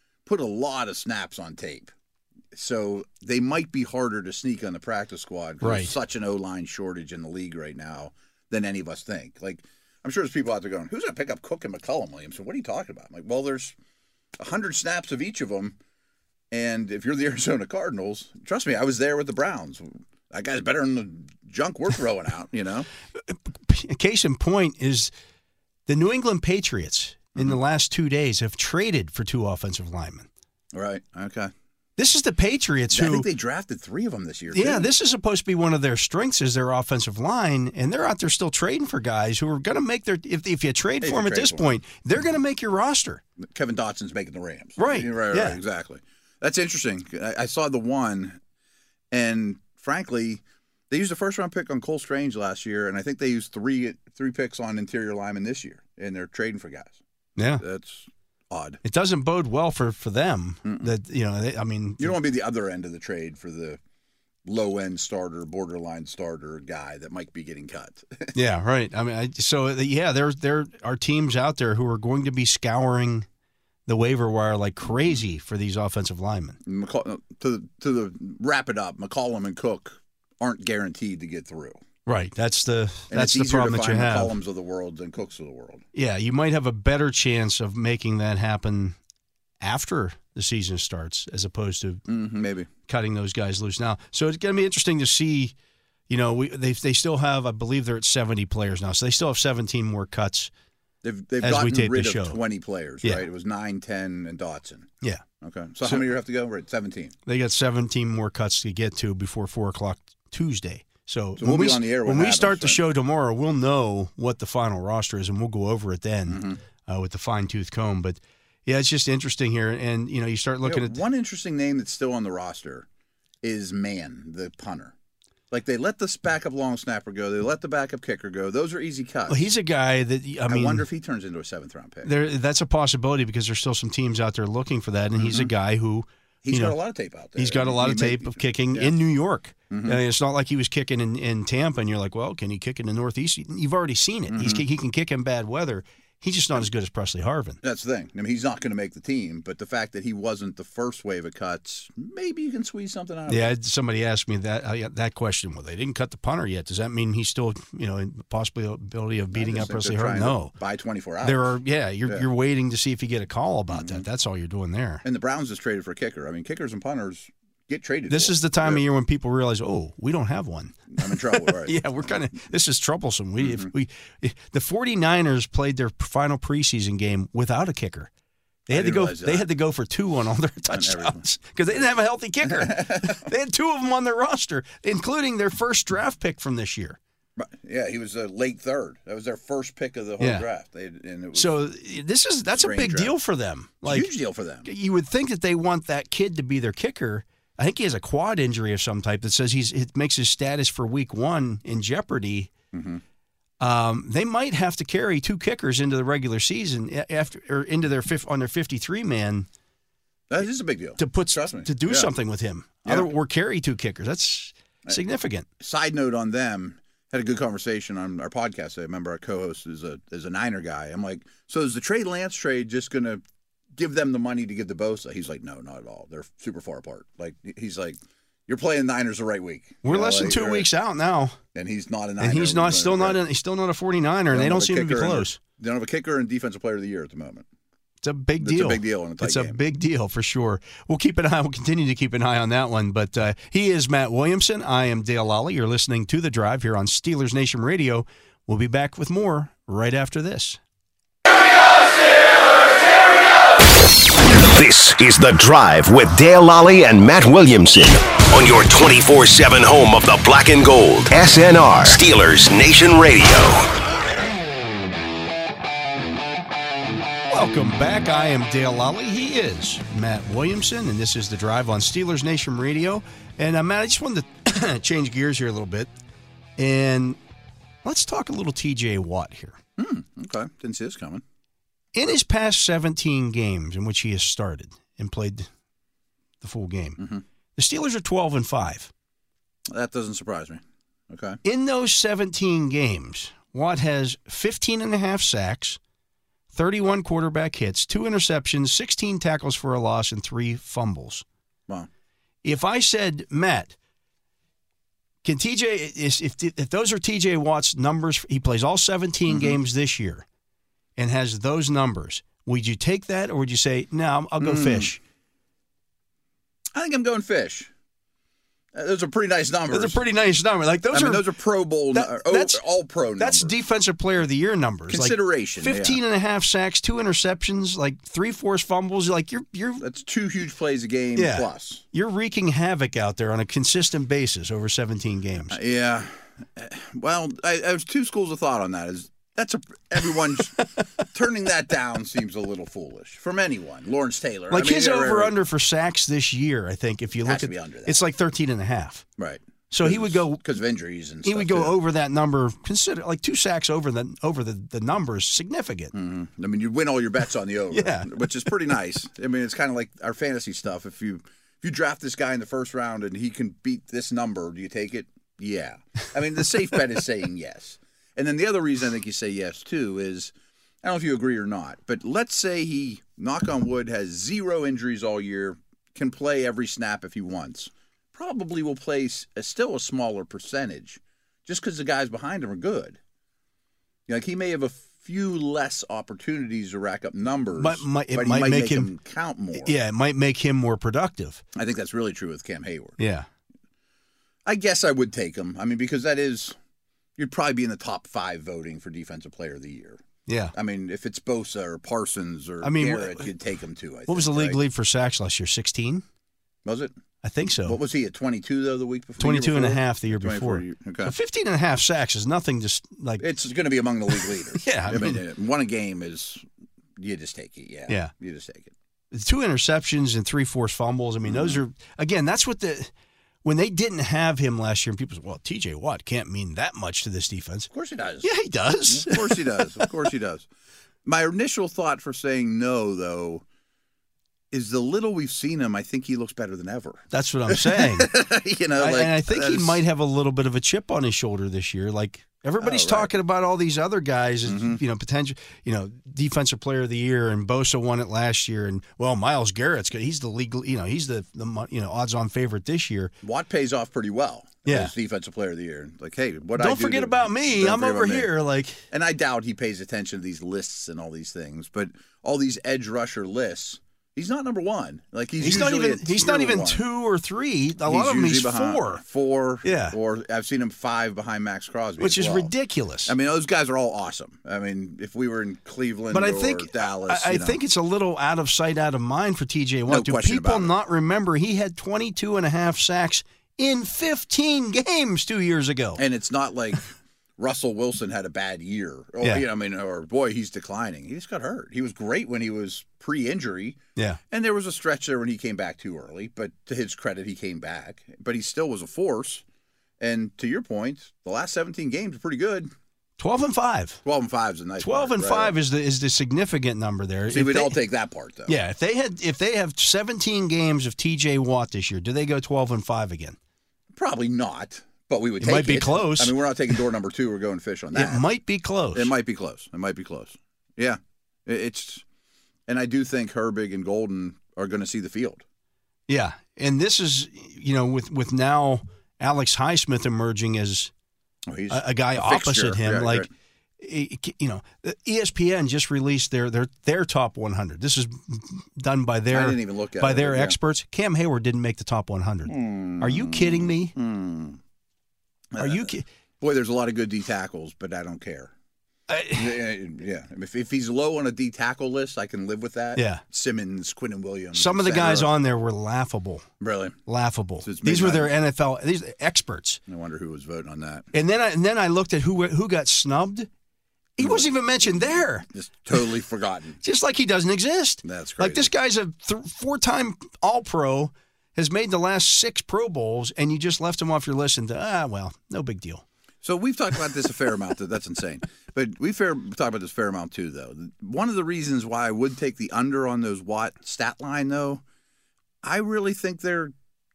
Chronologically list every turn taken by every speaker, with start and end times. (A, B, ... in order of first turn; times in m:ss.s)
0:00.2-0:01.9 A
0:02.5-0:13.8 A
0:05.6-0:05.9 B
0:14.4-0:15.8 A
0:16.5-0:22.9 A
0:23.3-0:25.1 B
0:25.9-0:30.3 B
0:30.7-0:31.5 A
0:32.0-0:33.3 B
0:32.9-0:34.9 A
0:34.5-0:43.2 B
0:41.0-0:41.7 A
0:43.4-0:48.4 A
0:44.8-0:45.6 B
0:49.1-0:57.0 A
0:57.4-0:57.6 B
0:57.6-0:58.8 A
0:58.8-1:02.2 B
1:00.6-1:00.9 A
1:02.0-1:03.8 A
1:04.4-1:08.3 A
1:08.3-1:13.3 B
1:13.9-1:16.6 B
1:16.6-1:21.8 A
1:22.0-1:24.3 B
1:23.1-1:25.8 A
1:25.9-1:29.0 B
1:29.6-1:32.0 B
1:32.1-1:32.7 A
1:32.8-1:35.5 B
1:36.1-1:40.5 B
1:41.0-1:47.1 A
1:41.4-1:42.4 B
1:47.2-2:01.0 B
1:51.4-1:52.8 A
1:56.3-1:56.6 A
2:00.6-2:02.9 A
2:03.4-2:04.9 A
2:05.5-2:09.5 A
2:09.3-2:10.8 B
2:10.5-2:12.1 A
2:12.0-2:16.8 B
2:15.2-2:15.5 A
2:16.4-2:18.9 A
2:17.4-2:27.6 B
2:19.7-2:20.0 A
2:24.3-2:24.6 A
2:27.6-2:33.5 A
2:33.3-2:40.5 B
2:39.3-2:41.5 A
2:41.2-2:45.0 B
2:43.7-2:44.0 A
2:45.0-2:48.8 A
2:48.1-2:58.1 B
2:50.9-2:51.8 A
2:53.4-2:53.7 A
2:58.7-3:07.0 B
2:58.7-2:59.5 A
3:00.7-3:01.9 A
3:02.4-3:03.2 A
3:07.4-3:11.6 A
3:10.2-3:10.4 B
3:11.3-3:14.1 B
3:12.6-3:13.2 A
3:13.8-3:14.7 A
3:14.6-3:22.5 B
3:22.7-3:23.0 A
3:23.6-3:29.5 B
3:30.3-3:32.1 A
3:31.0-3:35.5 B
3:32.8-3:33.1 A
3:35.6-3:43.2 A
3:43.7-3:50.7 A
3:49.8-3:51.4 B
3:51.5-3:53.2 A
3:52.2-3:55.4 B
3:54.3-3:57.4 A
3:58.0-4:10.6 B
3:58.4-3:59.6 A
4:14.5-4:23.8 C
4:27.3-4:35.9 B
4:36.6-4:37.2 B
4:37.8-4:39.6 B
4:39.8-4:41.2 A
4:41.9-4:45.5 B
4:46.4-4:47.0 B
4:47.6-4:48.9 B
4:49.7-4:51.4 A
4:51.4-4:55.8 B
4:56.5-5:01.2 B
5:02.4-5:03.7 B
5:05.2-5:10.2 B
5:09.3-5:09.6 A
5:11.0-5:15.0 B
5:14.4-5:14.9 A
5:16.7-5:17.7 A
5:18.7-5:20.0 A
5:19.7-5:21.2 B
5:20.9-5:23.6 A
5:21.9-5:22.6 B
5:23.2-5:29.8 B
5:24.9-5:26.0 A
5:29.8-5:31.8 A
5:31.2-5:35.6 B
5:35.5-5:45.4 A
5:44.5-5:49.0 B
5:47.2-5:48.0 A
5:49.2-5:51.8 A
5:49.7-5:50.4 B
5:51.2-5:55.9 B
5:55.9-6:10.3 A
5:57.7-5:58.3 B
6:10.8-6:23.0 A
6:24.1-6:29.8 A
6:27.6-6:28.9 B
6:29.6-6:31.4 B
6:31.5-6:33.0 A
6:33.0-6:33.3 B
6:34.4-6:36.6 A
6:37.2-6:40.0 A
6:40.3-6:40.5 B
6:40.5-6:44.6 A
6:42.6-6:43.3 B
6:44.1-6:46.0 B
6:46.6-6:46.9 A
6:47.2-6:47.8 B
6:47.6-6:51.1 A
6:49.2-6:53.2 B
6:53.2-6:56.4 A
6:54.5-6:55.2 B
6:57.0-6:58.7 A
6:59.1-7:02.9 B
7:01.2-7:01.6 A
7:03.4-7:07.7 B
7:07.7-7:08.3 A
7:08.2-7:09.9 B
7:08.9-7:10.5 A
7:11.0-7:13.4 A
7:14.5-7:19.8 A
7:17.1-7:18.2 B
7:18.8-7:33.1 B
7:22.6-7:23.1 A
7:24.4-7:24.8 A
7:33.2-7:38.3 A
7:34.6-7:34.9 B
7:36.6-7:38.8 B
7:38.9-7:46.8 A
7:45.4-7:49.0 B
7:47.8-7:52.5 A
7:49.6-7:50.0 B
7:52.0-7:53.1 B
7:53.0-7:57.6 A
7:56.1-8:06.0 B
7:59.9-8:00.7 A
8:06.0-8:13.8 A
8:14.3-8:19.4 A
8:20.0-8:22.7 A
8:23.2-8:24.0 B
8:24.0-8:25.6 A
8:24.8-8:27.8 B
8:27.3-8:28.6 A
8:28.5-8:33.4 B
8:33.9-8:38.2 A
8:35.4-8:36.4 B
8:37.9-8:39.1 B
8:38.9-8:42.0 A
8:42.7-8:45.4 A
8:46.1-8:50.9 B
8:51.5-8:53.3 A
8:51.7-9:03.9 B
8:59.3-9:00.6 A
9:02.4-9:04.6 A
9:05.5-9:08.5 A
9:05.6-9:06.0 B
9:09.1-9:09.6 B
9:09.3-9:15.3 A
9:13.0-9:13.2 B
9:14.5-9:16.4 B
9:16.6-9:17.0 A
9:17.0-9:19.8 B
9:17.6-9:18.3 A
9:19.9-9:21.1 A
9:21.1-9:23.5 B
9:24.2-9:25.5 B
9:24.2-9:26.8 A
9:26.8-9:36.0 B
9:28.0-9:28.7 A
9:36.4-9:44.8 A
9:45.6-9:46.7 A